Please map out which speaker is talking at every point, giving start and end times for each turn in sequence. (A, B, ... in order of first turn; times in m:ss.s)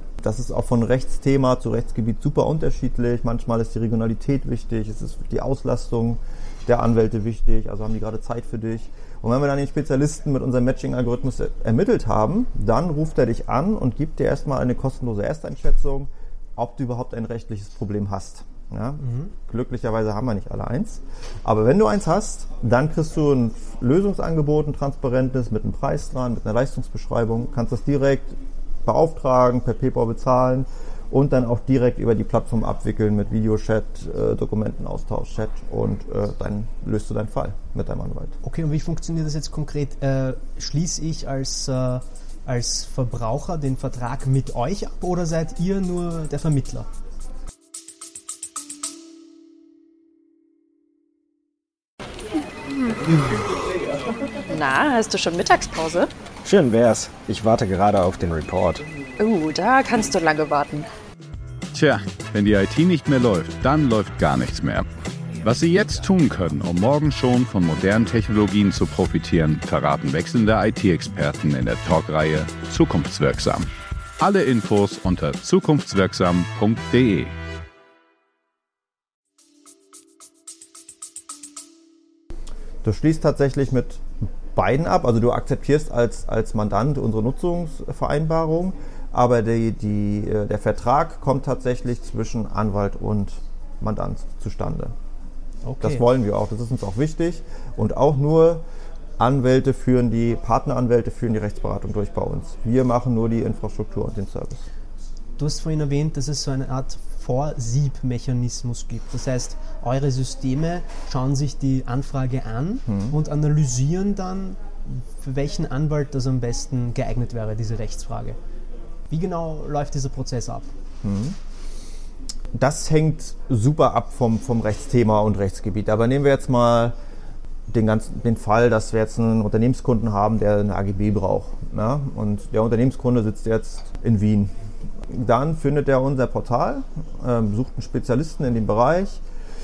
0:00.2-0:38.3 A
0:19.0-0:19.3 B
0:38.4-0:46.9 B
0:52.7-0:53.4 C
0:54.5-0:56.1 C
0:56.4-0:58.8 D
0:59.2-1:00.9 C
1:01.7-1:04.8 E
1:05.4-1:13.7 E
1:14.2-1:17.3 E
1:22.8-1:34.9 A
1:35.6-1:36.0 B
1:35.8-1:38.6 A
1:39.2-1:44.7 A
1:45.4-1:58.4 B
1:52.9-1:53.2 A
1:59.1-2:00.7 B
2:01.0-2:01.4 A
2:02.5-2:06.9 A
2:07.7-2:14.5 A
2:15.1-2:19.2 A